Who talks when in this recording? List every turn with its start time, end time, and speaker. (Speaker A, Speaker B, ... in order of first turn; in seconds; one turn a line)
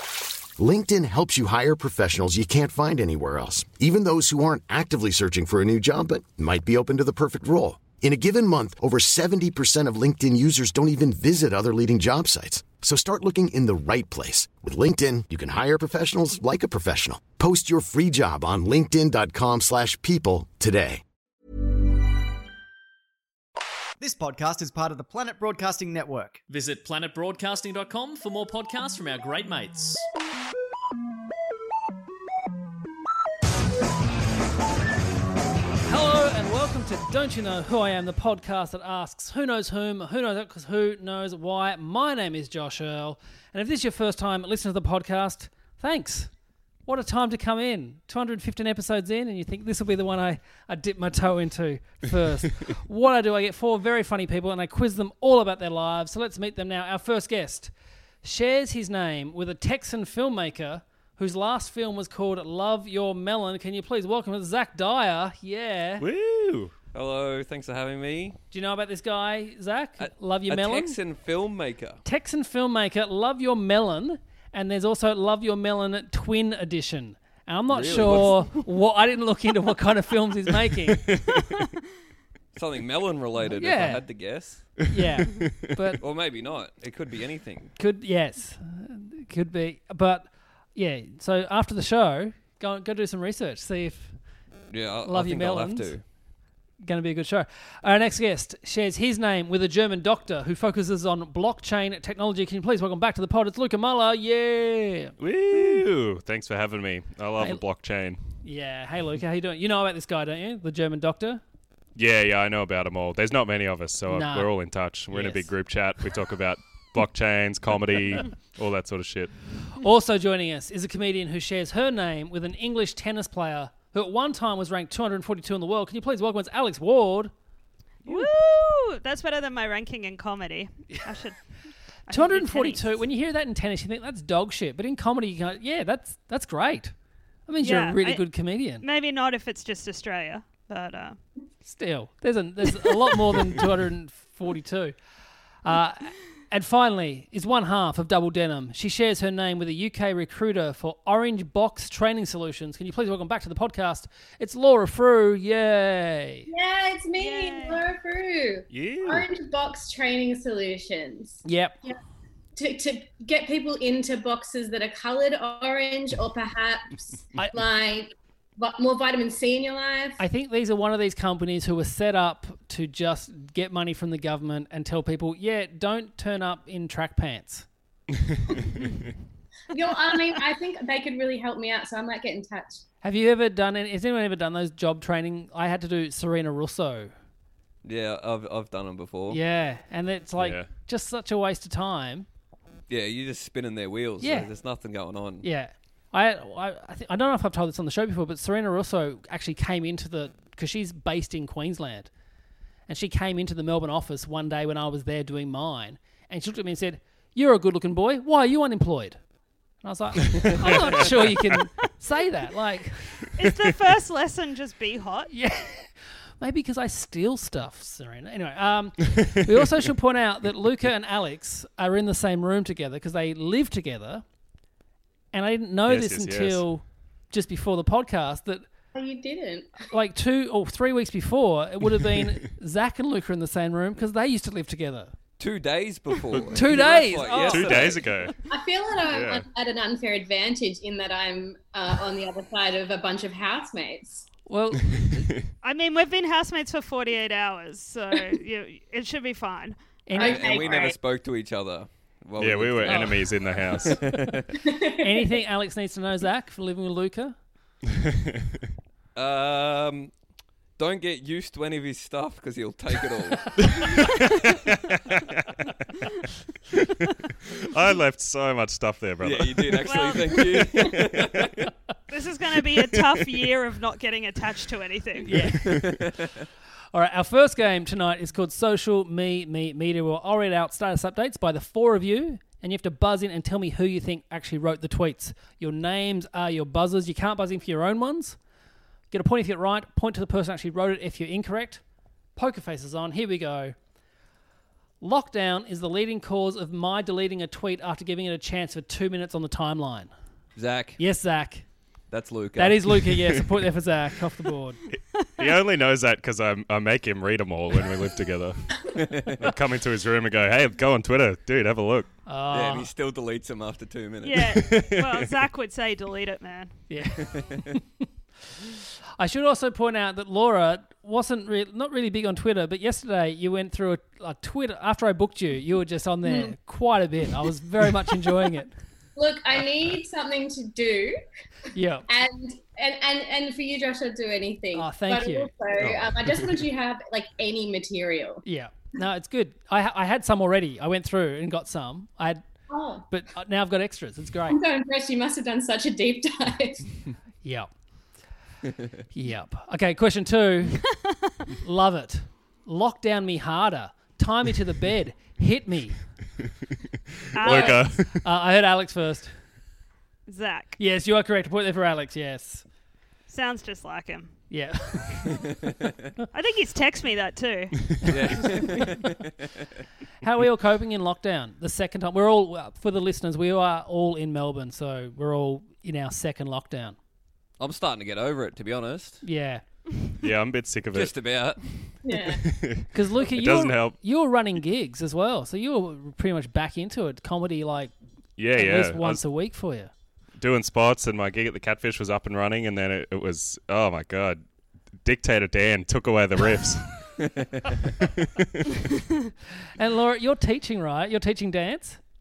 Speaker A: 0.5-21.0
Speaker B: 24.0-26.4
Speaker C: 26.5-30.1
Speaker D: 35.9-46.3
Speaker D: 46.9-57.7
Speaker D: 58.2-66.1
Speaker E: 66.0-66.7
Speaker F: 66.9-68.4
Speaker D: 68.5-71.0
Speaker F: 70.0-72.0
Speaker D: 72.0-81.1
Speaker F: 77.7-78.6
Speaker F: 82.5-84.7
Speaker D: 83.5-84.0
Speaker D: 84.8-86.0
Speaker F: 86.0-87.7
Speaker D: 87.8-94.2
Speaker F: 94.7-96.0
Speaker D: 95.0-95.9
Speaker D: 96.8-105.8
Speaker E: 105.2-108.2
Speaker D: 108.4-111.4
Speaker E: 112.0-119.3
Speaker D: 114.1-114.5
Speaker D: 115.1-115.5
Speaker D: 119.8-127.3
Speaker G: 128.1-131.4
Speaker G: 132.1-132.9
Speaker D: 132.1-136.9
Speaker D: 137.5-138.8
Speaker G: 137.6-138.3
Speaker G: 138.8-141.2
Speaker D: 141.6-144.9
Speaker D: 145.6-156.5
Speaker H: 156.5-161.9
Speaker G: 157.2-157.8
Speaker E: 158.7-159.2
Speaker D: 161.4-161.8
Speaker H: 162.5-170.2
Speaker D: 170.2-177.7
Speaker H: 179.7-182.8
Speaker D: 183.0-187.1
Speaker F: 187.8-189.4
Speaker D: 189.3-192.2
Speaker E: 190.4-190.7
Speaker F: 192.9-195.5
Speaker D: 194.2-194.5
Speaker D: 195.4-202.1
Speaker D: 202.9-209.2
Speaker D: 209.8-213.5
Speaker E: 210.4-211.1
Speaker G: 213.4-215.3
Speaker D: 215.3-224.2
Speaker D: 225.3-228.7
Speaker E: 225.9-226.6
Speaker H: 228.9-229.8
Speaker D: 229.9-235.1
Speaker F: 235.4-238.1
Speaker D: 236.5-238.0
Speaker E: 237.4-238.3
Speaker H: 238.5-244.3
Speaker E: 239.1-239.4
Speaker D: 244.5-245.3
Speaker E: 245.0-245.5
Speaker G: 245.6-249.8
Speaker D: 250.1-250.9
Speaker H: 250.2-251.0
Speaker F: 250.2-254.5
Speaker E: 252.4-254.0
Speaker H: 254.6-255.3
Speaker D: 255.0-257.4
Speaker F: 259.1-260.1
Speaker F: 260.8-263.6
Speaker E: 263.7-264.5
Speaker E: 265.1-265.4
Speaker E: 267.6-269.9
Speaker F: 269.2-271.7
Speaker G: 269.8-270.6
Speaker G: 272.1-275.4
Speaker D: 275.3-276.0
Speaker F: 275.7-276.3
Speaker D: 276.9-288.4
Speaker D: 289.1-291.8
Speaker D: 292.4-293.8
Speaker D: 295.0-300.1
Speaker F: 300.6-301.0
Speaker D: 301.0-301.7
Speaker F: 302.1-303.1
Speaker D: 302.6-304.8
Speaker E: 304.9-308.6
Speaker F: 309.0-309.5
Speaker E: 309.3-312.1
Speaker D: 312.3-312.9
Speaker F: 312.5-314.5
Speaker G: 314.2-316.8
Speaker E: 314.6-315.2
Speaker D: 316.9-317.8
Speaker F: 317.2-317.7
Speaker D: 319.2-328.7
Speaker H: 326.2-326.6
Speaker H: 329.2-331.2
Speaker D: 331.7-332.1
Speaker H: 332.1-338.4
Speaker D: 334.7-335.5
Speaker E: 335.8-336.5
Speaker D: 338.4-342.4
Speaker H: 342.7-343.1
Speaker D: 343.1-344.6
Speaker H: 344.5-346.9
Speaker D: 347.4-347.7
Speaker D: 349.1-350.8
Speaker D: 351.6-356.0
Speaker E: 357.3-358.2
Speaker G: 357.4-357.9
Speaker D: 357.4-359.3
Speaker G: 360.3-360.8
Speaker D: 360.8-362.6
Speaker G: 363.3-364.3
Speaker D: 364.5-365.4
Speaker F: 365.4-365.7
Speaker G: 366.3-368.0
Speaker D: 368.1-368.8
Speaker F: 368.1-369.2
Speaker D: 370.2-377.0
Speaker F: 377.6-379.2
Speaker D: 379.2-379.6
Speaker E: 380.2-381.1
Speaker F: 380.9-381.9
Speaker H: 382.0-382.4
Speaker E: 382.4-384.0
Speaker D: 382.9-387.9
Speaker E: 388.4-389.2
Speaker D: 388.5-389.9
Speaker E: 390.4-394.4
Speaker E: 395.0-397.1
Speaker E: 398.0-398.8
Speaker D: 399.8-402.0